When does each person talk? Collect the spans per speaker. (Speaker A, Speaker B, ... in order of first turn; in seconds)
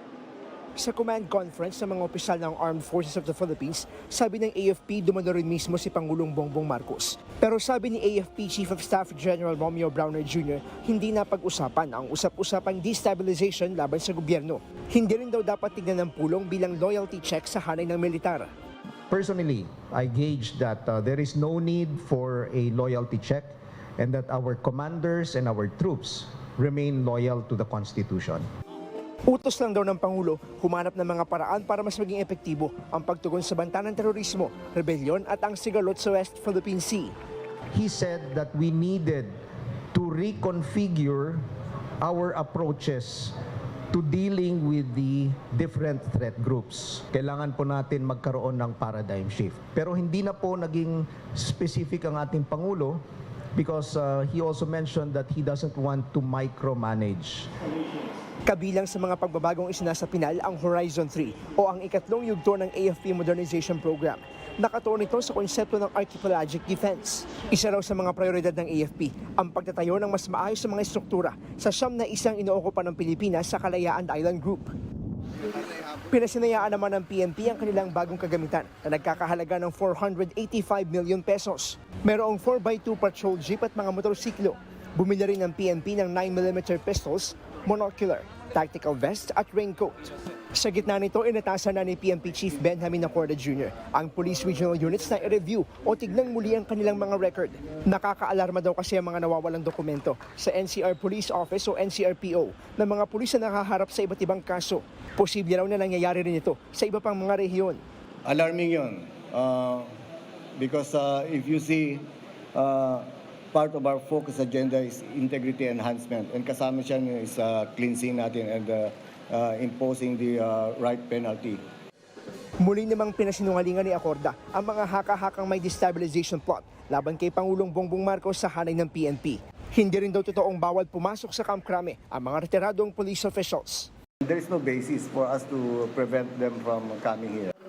Speaker A: 0.8-18.5, 29.3-37.1, 58.5-74.7, 75.9-89.9, 90.5-107.8, 122.6-133.9
Speaker B: 19.1-28.4, 37.7-39.3, 39.9-41.4, 42.0-43.4, 43.9-53.0, 53.5-57.5
Speaker C: 108.2-109.9, 110.6-121.6, 134.2-137.5